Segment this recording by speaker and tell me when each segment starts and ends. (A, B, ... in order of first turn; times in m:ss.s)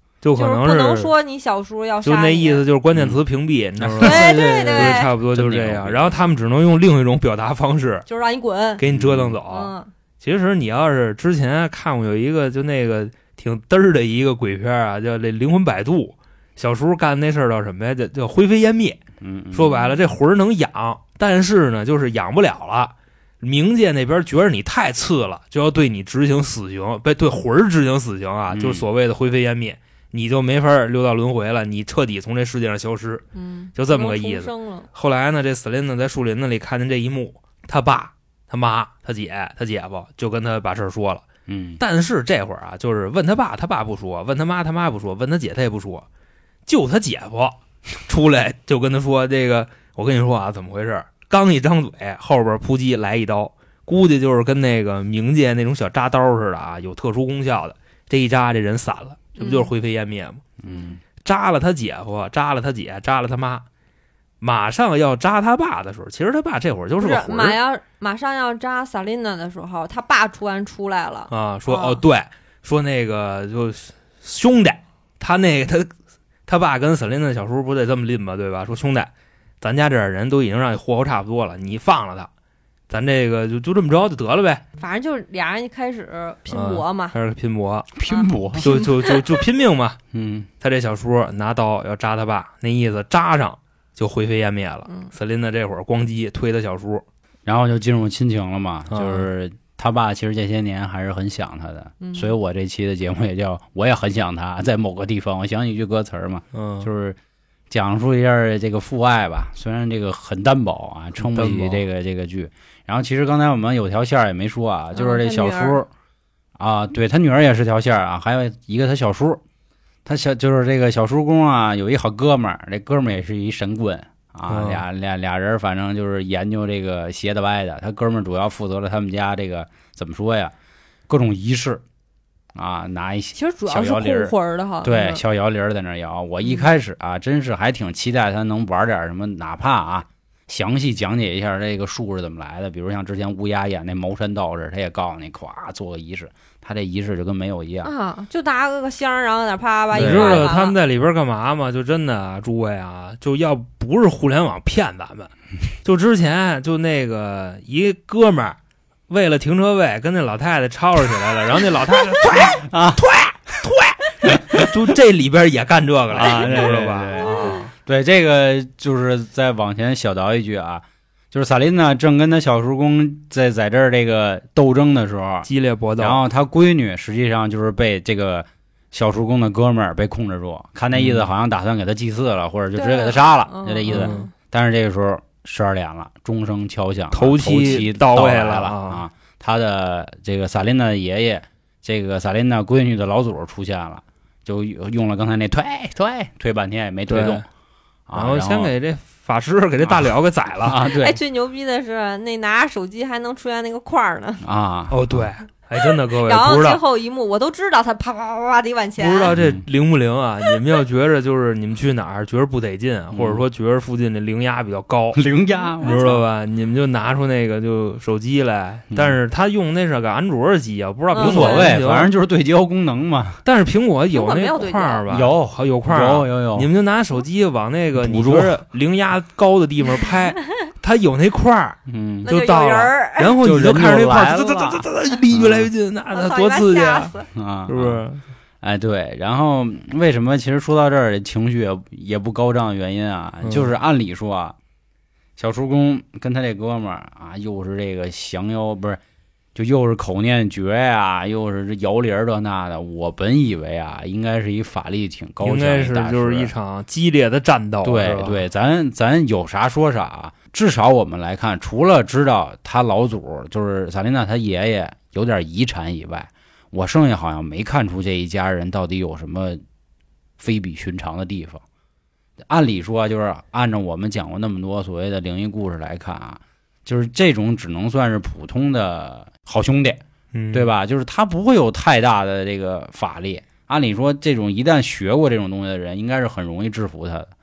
0:00.2-0:01.1 A
0:00.3-0:02.6 B
0:02.0-0:08.0 A
0:02.9-0:03.2 C
0:03.8-0:06.2 C
0:04.0-0:05.1 B
0:08.1-0:08.8 B
0:08.8-0:19.0 A
0:08.9-0:09.4 C
0:09.5-0:09.9 B
0:19.2-0:19.8 C
0:19.5-0:33.2 A
0:28.5-0:28.8 C
0:33.3-0:34.9 B
0:33.8-0:41.2 A
0:41.5-0:41.8 C
0:41.8-0:46.0 A
0:46.6-1:00.4 A
0:59.4-0:59.7 B
1:00.6-1:01.0 C
1:00.7-1:00.9 B
1:01.2-1:03.6 A
1:04.4-1:07.6 A
1:07.0-1:12.0 B
1:11.3-1:15.9 A
1:16.5-1:22.3 A
1:22.9-1:24.6 A
1:24.8-1:27.1 B
1:26.5-1:27.9 A
1:28.0-1:28.6 C
1:28.1-1:29.2 B
1:28.6-1:30.0 A
1:30.1-1:30.5 C
1:30.6-1:37.0 A
1:37.4-1:47.2 C
1:38.9-1:39.3 A
1:42.0-1:42.3 B
1:46.5-1:46.9 A
1:47.7-1:55.9 C
1:51.2-1:51.8 A
1:54.9-1:55.8 B
1:56.6-1:59.4 C
2:00.0-2:10.5 C
2:04.5-2:04.8 A
2:11.1-2:11.8 C
2:12.5-2:27.9 C
2:13.3-2:15.2 B
2:16.4-2:16.7 B
2:27.8-2:30.8 B
2:29.9-2:30.5 C
2:29.9-2:35.3 A
2:35.8-2:38.6 A
2:39.1-2:47.7 A
2:42.4-2:43.0 C
2:44.2-2:44.7 C
2:46.1-3:17.4 C
2:47.2-2:47.6 B
2:55.4-2:56.2 A
3:00.9-3:01.3 A
3:02.7-3:04.3 B
3:03.9-3:04.3 A
3:07.1-3:09.0 A
3:17.1-3:17.4 A
3:18.1-3:18.7 C
3:18.1-3:20.8 A
3:19.8-3:21.2 C
3:20.8-3:24.4 B
3:24.4-3:25.3 C
3:24.9-3:26.8 A
3:26.1-3:29.3 B
3:29.0-3:35.2 A
3:29.3-3:29.6 C
3:33.1-3:33.4 C
3:35.1-3:36.2 C
3:35.8-3:36.1 B
3:35.8-3:42.1 A
3:38.9-3:39.2 C
3:41.1-3:41.7 B
3:41.2-3:43.4 C
3:43.4-3:57.1 A
3:44.1-3:45.1 B
3:45.1-3:46.7 C
3:48.0-3:48.6 C
3:51.9-3:52.3 C
3:52.2-3:53.4 B
3:53.4-3:55.7 C
3:56.1-3:57.3 B
3:57.3-3:58.0 C
3:57.7-3:58.2 A
3:58.6-4:04.6 C
4:03.4-4:03.7 A
4:05.4-4:09.0 C
4:09.5-4:16.5 C
4:15.4-4:18.4 A
4:17.8-4:29.6 C
4:30.4-4:31.6 C
4:32.4-4:40.0 C
4:40.3-4:40.7 A
4:40.5-4:47.3 C